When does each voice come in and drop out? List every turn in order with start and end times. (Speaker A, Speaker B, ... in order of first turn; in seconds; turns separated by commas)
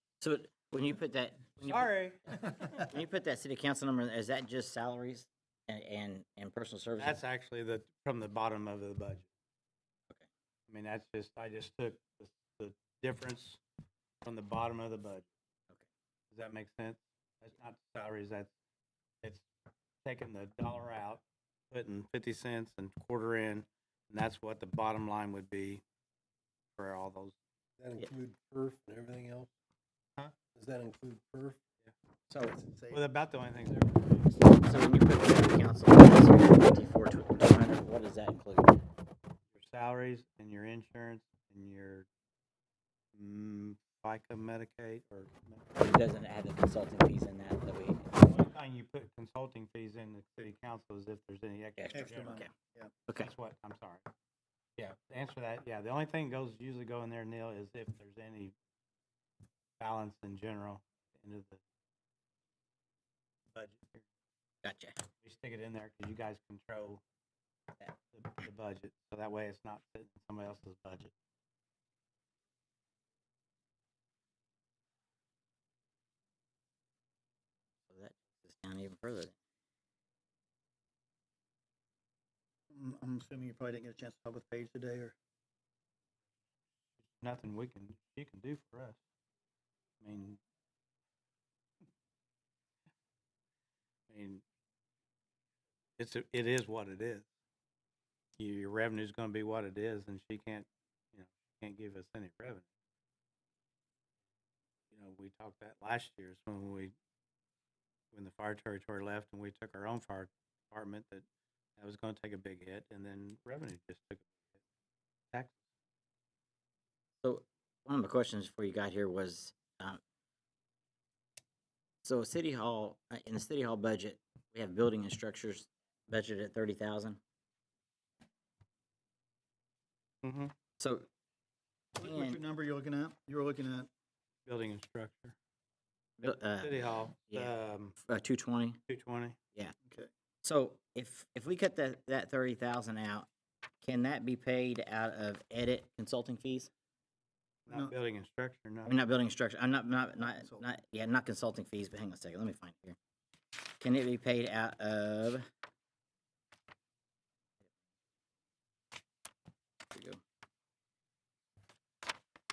Speaker A: 0.2-7.2, Speaker B: 1.6-2.8, Speaker B: 7.0-9.3, Speaker B: 10.7-13.6, Speaker B: 14.2-15.3, Speaker B: 16.3-18.5, Speaker B: 20.0-25.8, Speaker B: 26.8-27.4, Speaker C: 27.8-29.5, Speaker C: 30.5-31.6, Speaker A: 32.3-32.6, Speaker D: 32.5-33.0, Speaker B: 32.9-34.1, Speaker A: 34.6-38.8, Speaker B: 39.5-42.1, Speaker B: 43.1-45.7, Speaker A: 45.8-48.1, Speaker B: 48.2-52.4, Speaker A: 51.8-52.5, Speaker D: 51.9-52.9, Speaker B: 53.2-54.1, Speaker B: 54.8-58.5, Speaker B: 59.8-61.6, Speaker B: 63.5-64.0, Speaker A: 64.6-65.0, Speaker B: 65.2-67.0, Speaker B: 68.0-71.1, Speaker A: 77.9-79.3, Speaker D: 82.7-85.2, Speaker B: 87.2-89.0, Speaker B: 90.0-90.4, Speaker B: 94.1-94.4, Speaker B: 96.0-97.3, Speaker B: 98.4-102.7, Speaker B: 104.9-106.9, Speaker B: 108.1-111.2, Speaker B: 111.8-114.6, Speaker B: 115.3-115.6, Speaker A: 117.2-120.0, Speaker A: 122.0-127.2, Speaker B: 130.2-130.5, Speaker A: 130.8-131.1, Speaker D: 132.0-133.9, Speaker A: 132.0-132.4, Speaker B: 134.5-135.4, Speaker A: 136.2-138.8, Speaker B: 136.2-138.0, Speaker B: 138.9-139.4, Speaker A: 140.4-143.3, Speaker A: 143.8-146.7, Speaker D: 147.7-147.9, Speaker B: 147.7-149.0, Speaker A: 148.9-153.0, Speaker D: 150.3-150.6, Speaker A: 153.8-155.4, Speaker A: 159.9-160.2